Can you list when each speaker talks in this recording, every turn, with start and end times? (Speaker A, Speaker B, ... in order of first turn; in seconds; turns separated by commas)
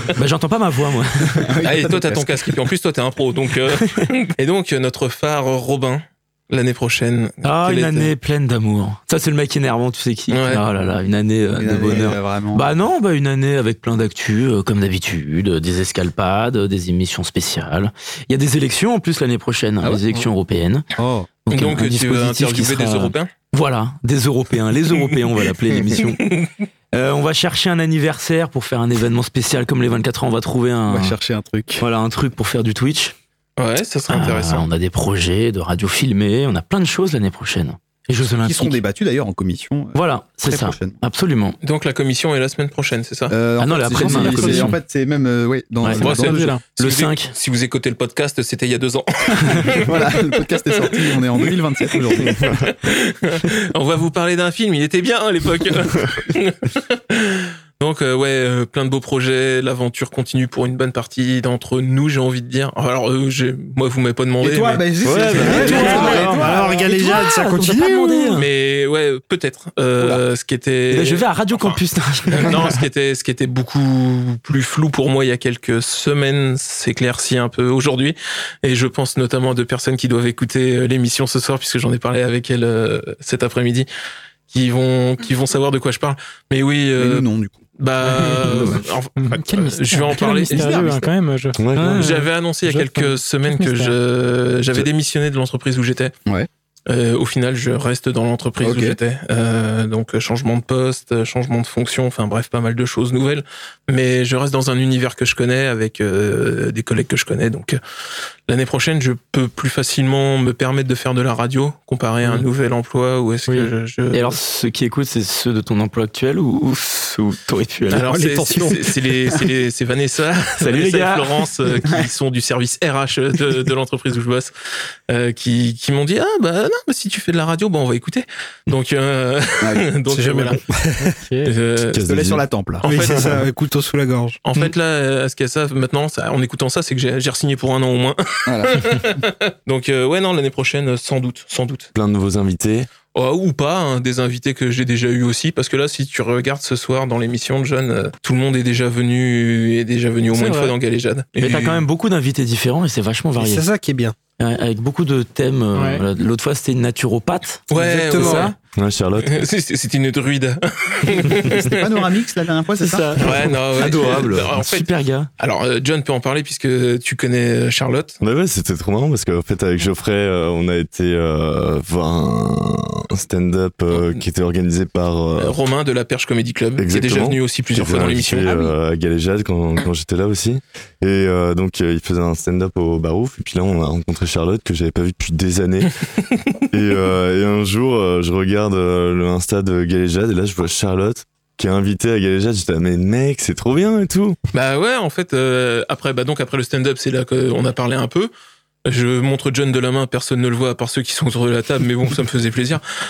Speaker A: 0.2-1.6, Speaker B: 1.5-2.3, Speaker C: 1.6-8.1, Speaker A: 3.8-4.1, Speaker A: 7.4-20.9, Speaker C: 10.3-10.6, Speaker B: 11.5-12.7, Speaker B: 19.8-20.3, Speaker B: 21.0-21.4, Speaker A: 21.5-26.4, Speaker C: 21.5-23.3, Speaker C: 24.9-25.2, Speaker C: 26.0-26.5, Speaker A: 26.9-31.2, Speaker B: 30.9-31.9, Speaker A: 31.8-33.1, Speaker C: 33.6-34.7, Speaker A: 34.1-38.8, Speaker B: 38.4-41.0, Speaker A: 39.9-41.6, Speaker C: 41.6-43.4, Speaker B: 43.3-46.5, Speaker A: 43.6-44.8, Speaker C: 44.1-44.4, Speaker A: 45.8-47.3, Speaker C: 45.9-64.9, Speaker D: 46.0-46.6, Speaker B: 49.5-52.5, Speaker E: 52.3-52.6, Speaker B: 64.4-68.3, Speaker E: 65.0-66.4, Speaker A: 65.3-68.5, Speaker F: 65.4-68.2, Speaker C: 65.4-66.1, Speaker C: 68.3-71.8, Speaker A: 70.9-72.8, Speaker C: 72.3-83.9, Speaker C: 84.5-87.3, Speaker B: 87.0-87.6, Speaker C: 87.8-90.6, Speaker D: 88.0-94.0, Speaker B: 88.2-88.8, Speaker B: 90.5-91.1, Speaker E: 91.6-92.0, Speaker C: 91.8-96.1, Speaker C: 96.9-107.8, Speaker B: 98.6-99.0, Speaker C: 108.5-114.4, Speaker D: 113.5-113.7, Speaker A: 114.1-119.4, Speaker C: 117.9-124.5, Speaker A: 120.6-121.5, Speaker C: 125.1-130.6, Speaker B: 129.6-129.9, Speaker F: 130.2-131.2, Speaker D: 131.0-131.6, Speaker C: 131.4-132.0, Speaker E: 131.9-133.3, Speaker B: 132.0-132.9, Speaker C: 132.8-133.3, Speaker F: 132.8-134.7, Speaker C: 134.4-141.9, Speaker B: 138.5-139.2, Speaker E: 141.9-142.9, Speaker C: 143.1-151.9, Speaker D: 150.3-150.8, Speaker A: 151.4-153.7, Speaker F: 153.4-154.2, Speaker A: 154.4-157.6, Speaker D: 155.8-156.0, Speaker F: 157.7-158.6, Speaker C: 157.7-158.6, Speaker A: 158.2-158.5, Speaker E: 158.7-159.3, Speaker C: 159.3-162.0, Speaker B: 161.5-163.1, Speaker F: 162.8-163.5, Speaker C: 163.2-168.2, Speaker A: 163.7-165.3, Speaker B: 163.8-164.4, Speaker E: 168.2-175.6, Speaker C: 173.9-174.2, Speaker C: 175.4-178.5, Speaker E: 176.8-186.0, Speaker B: 178.4-178.7, Speaker E: 186.7-194.4, Speaker C: 194.5-198.3, Speaker C: 198.9-202.8